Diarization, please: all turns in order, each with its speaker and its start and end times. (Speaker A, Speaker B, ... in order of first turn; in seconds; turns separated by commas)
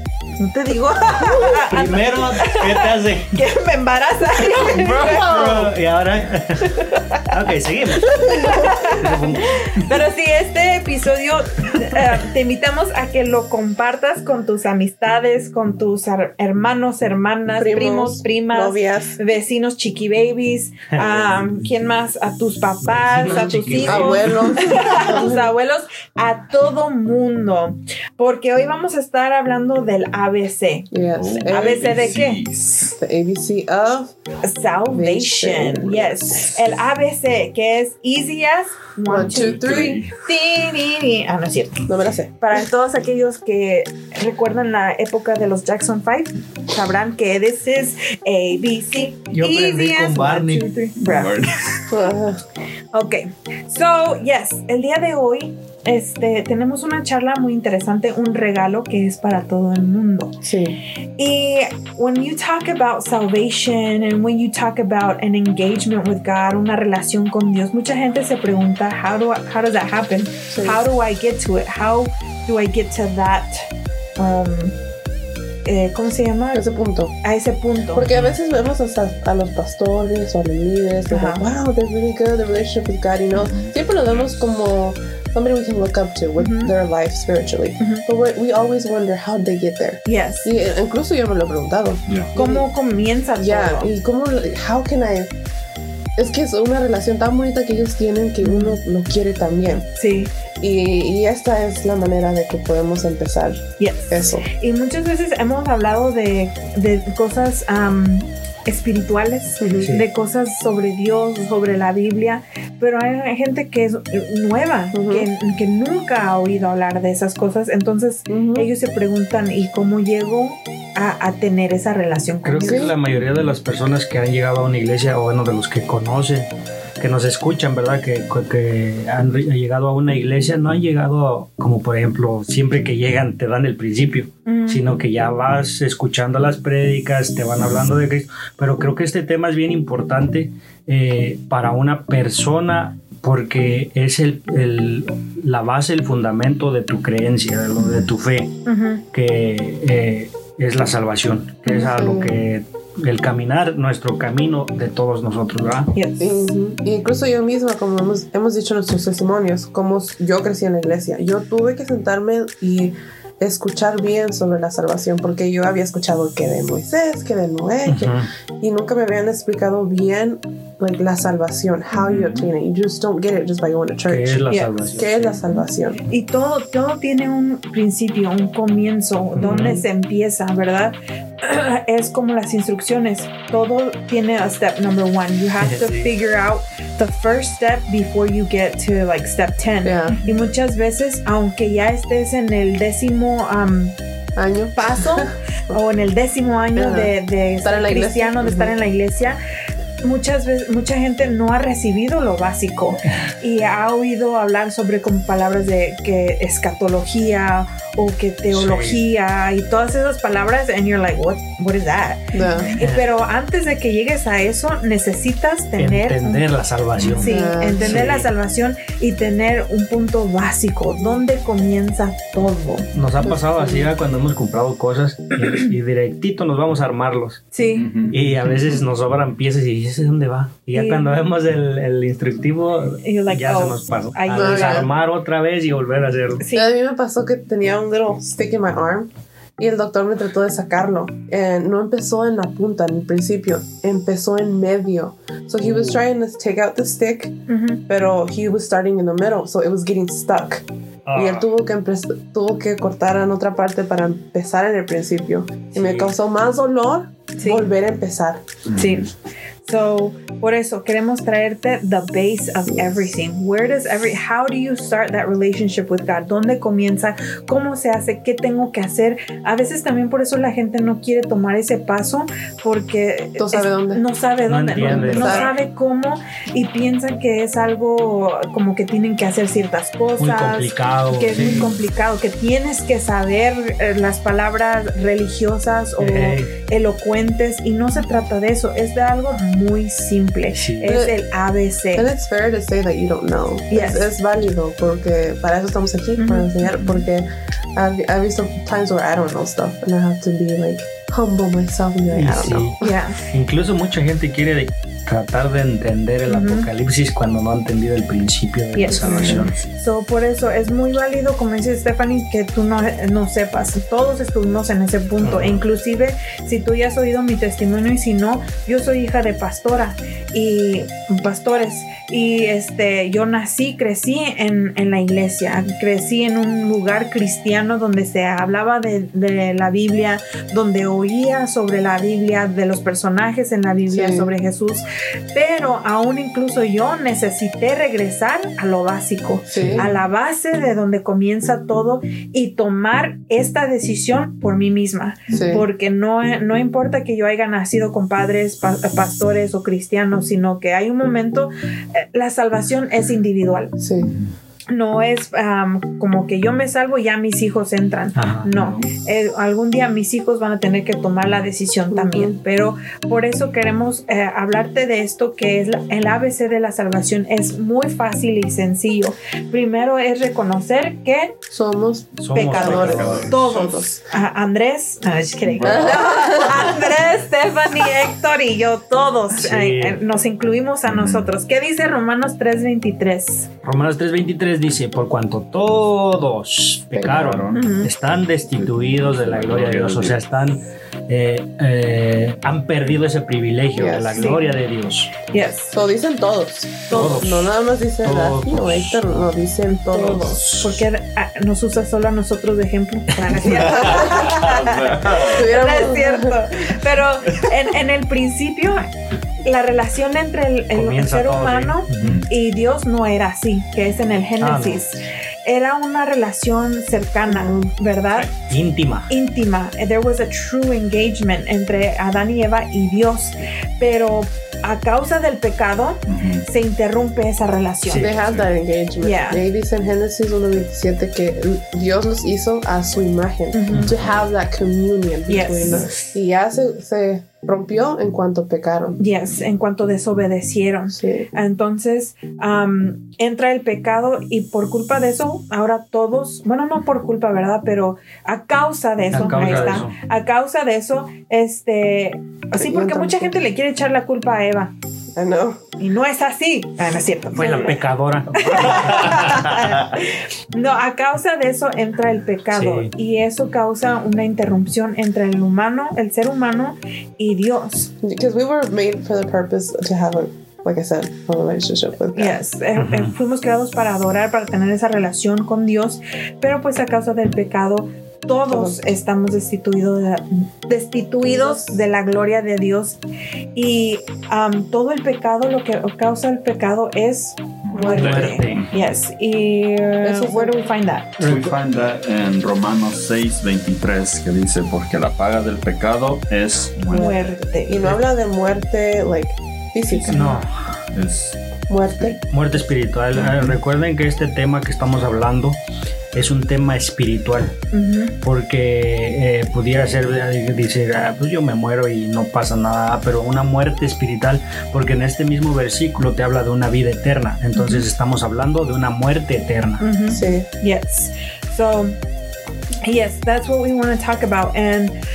Speaker A: 0.4-5.3, Speaker B: 1.2-1.5, Speaker C: 1.7-3.3, Speaker D: 4.6-5.7, Speaker C: 4.9-9.5, Speaker A: 6.7-7.2, Speaker B: 8.1-8.9, Speaker A: 8.2-30.9, Speaker B: 17.6-19.2, Speaker C: 22.8-24.5, Speaker B: 23.8-25.5, Speaker B: 30.9-32.2, Speaker D: 31.1-32.9, Speaker A: 31.4-32.4, Speaker B: 32.9-34.1, Speaker A: 34.4-51.8, Speaker B: 34.9-36.6, Speaker B: 39.1-40.0, Speaker D: 39.1-40.1, Speaker B: 41.9-42.4, Speaker C: 49.3-50.7, Speaker D: 51.0-51.8, Speaker B: 51.9-52.4, Speaker A: 52.9-60.4, Speaker B: 60.4-60.8, Speaker A: 61.2-73.6, Speaker B: 70.5-70.8, Speaker A: 74.2-74.7, Speaker A: 75.6-76.7, Speaker B: 76.5-77.1, Speaker A: 77.2-78.0, Speaker B: 77.9-92.7, Speaker C: 78.0-78.3, Speaker A: 81.1-81.4, Speaker D: 83.3-84.3, Speaker A: 86.4-86.7, Speaker A: 87.8-88.0, Speaker A: 90.0-90.5, Speaker D: 92.1-92.3, Speaker A: 92.3-93.9, Speaker B: 93.4-95.3, Speaker B: 96.2-99.9, Speaker A: 98.4-98.8, Speaker A: 100.0-100.3, Speaker B: 100.6-104.5, Speaker A: 103.8-122.9, Speaker B: 109.6-109.9, Speaker B: 114.9-115.3, Speaker B: 118.3-118.7, Speaker C: 122.4-126.5, Speaker B: 122.6-122.9, Speaker C: 127.0-148.5, Speaker A: 134.4-134.9, Speaker D: 147.8-148.1, Speaker A: 148.7-149.0, Speaker C: 149.1-155.9, Speaker B: 151.7-152.4, Speaker A: 155.9-156.5, Speaker B: 156.2-176.0, Speaker C: 167.8-168.3, Speaker D: 171.9-172.5, Speaker C: 174.1-175.4, Speaker A: 174.5-174.9, Speaker A: 176.1-193.9, Speaker C: 179.4-179.8, Speaker C: 185.6-186.1, Speaker B: 189.8-190.2, Speaker B: 194.3-195.8, Speaker A: 194.8-199.4, Speaker B: 196.8-198.7, Speaker A: 200.0-212.2, Speaker C: 208.5-209.0, Speaker B: 212.3-212.7, Speaker D: 212.3-212.8, Speaker A: 212.8-216.4, Speaker C: 212.8-213.1, Speaker C: 215.8-217.3, Speaker D: 217.0-217.2, Speaker B: 217.2-218.1, Speaker A: 217.2-222.9, Speaker C: 217.8-218.3, Speaker C: 222.9-227.4, Speaker B: 223.2-223.9, Speaker A: 227.5-227.9, Speaker D: 227.8-228.2, Speaker C: 228.1-236.4, Speaker A: 230.7-231.2, Speaker A: 233.0-234.9, Speaker B: 234.3-234.9, Speaker A: 236.4-236.7, Speaker B: 236.5-247.3, Speaker D: 245.6-245.9, Speaker A: 247.5-247.8, Speaker B: 247.9-258.4, Speaker C: 251.1-251.5, Speaker C: 255.7-256.1, Speaker A: 257.4-257.7, Speaker D: 258.7-259.0, Speaker A: 258.7-259.1, Speaker A: 259.6-292.1, Speaker B: 262.7-263.1, Speaker B: 273.4-274.0, Speaker C: 274.5-275.5, Speaker B: 274.8-275.5, Speaker C: 280.2-281.7, Speaker C: 286.0-286.5, Speaker C: 290.6-291.0, Speaker B: 290.8-291.2, Speaker B: 291.9-302.9, Speaker A: 293.7-294.1, Speaker A: 296.2-296.5, Speaker C: 302.1-302.8, Speaker A: 302.8-303.2, Speaker C: 303.3-309.5, Speaker A: 306.3-306.7, Speaker A: 308.7-353.7, Speaker B: 308.9-309.5, Speaker C: 315.2-315.6, Speaker B: 333.9-334.3, Speaker B: 339.5-339.9, Speaker B: 345.3-345.6, Speaker B: 353.8-354.1, Speaker D: 354.0-354.3, Speaker A: 354.7-371.4, Speaker C: 358.1-358.5, Speaker D: 358.5-358.9, Speaker B: 361.9-362.4, Speaker B: 371.5-373.8, Speaker C: 372.2-373.3, Speaker A: 372.3-383.5, Speaker D: 372.6-373.9, Speaker D: 375.5-376.0, Speaker B: 375.6-376.8, Speaker C: 379.3-380.0, Speaker D: 380.9-381.3, Speaker C: 383.6-395.1, Speaker B: 386.9-387.2, Speaker D: 387.0-387.8, Speaker A: 387.5-387.9, Speaker D: 388.5-390.2, Speaker B: 393.7-394.5, Speaker A: 394.1-394.4, Speaker A: 395.3-395.7, Speaker B: 395.7-400.4, Speaker A: 396.9-397.3, Speaker C: 396.9-397.5, Speaker C: 398.0-399.3, Speaker A: 399.9-408.9, Speaker C: 400.0-400.8, Speaker D: 403.4-405.4, Speaker B: 403.6-404.3, Speaker B: 405.2-406.4, Speaker A: 409.4-418.3, Speaker C: 410.7-412.2, Speaker D: 412.0-412.3, Speaker C: 414.4-414.8, Speaker B: 417.3-417.7, Speaker C: 418.3-419.1, Speaker A: 419.1-428.1, Speaker D: 426.1-426.4, Speaker C: 427.9-428.1, Speaker B: 428.0-439.0, Speaker D: 428.0-428.5, Speaker A: 429.0-429.4, Speaker A: 433.5-433.9, Speaker D: 433.9-434.2, Speaker A: 435.3-436.1, Speaker A: 439.0-454.7, Speaker B: 440.9-441.3, Speaker C: 449.1-449.9, Speaker B: 452.6-453.4, Speaker B: 455.1-455.6, Speaker A: 455.8-457.8, Speaker C: 457.3-459.5, Speaker A: 458.4-467.9, Speaker D: 458.4-459.6, Speaker C: 462.5-462.9, Speaker B: 468.0-472.4, Speaker A: 472.1-483.0, Speaker C: 472.8-473.1, Speaker B: 478.4-478.8, Speaker B: 481.2-481.8, Speaker A: 483.5-491.2, Speaker D: 487.7-488.8, Speaker B: 487.7-488.3, Speaker C: 487.9-488.6, Speaker B: 490.0-490.7, Speaker C: 491.2-491.6, Speaker D: 491.2-497.1, Speaker B: 496.9-500.4, Speaker A: 496.9-497.8, Speaker D: 499.9-501.4, Speaker C: 500.1-500.5, Speaker B: 501.7-502.2, Speaker C: 502.3-505.6, Speaker D: 503.1-503.6, Speaker C: 506.1-507.6, Speaker A: 507.7-508.1, Speaker C: 508.2-519.9, Speaker A: 517.5-517.8, Speaker A: 519.8-522.0, Speaker B: 520.1-520.5, Speaker A: 522.8-525.0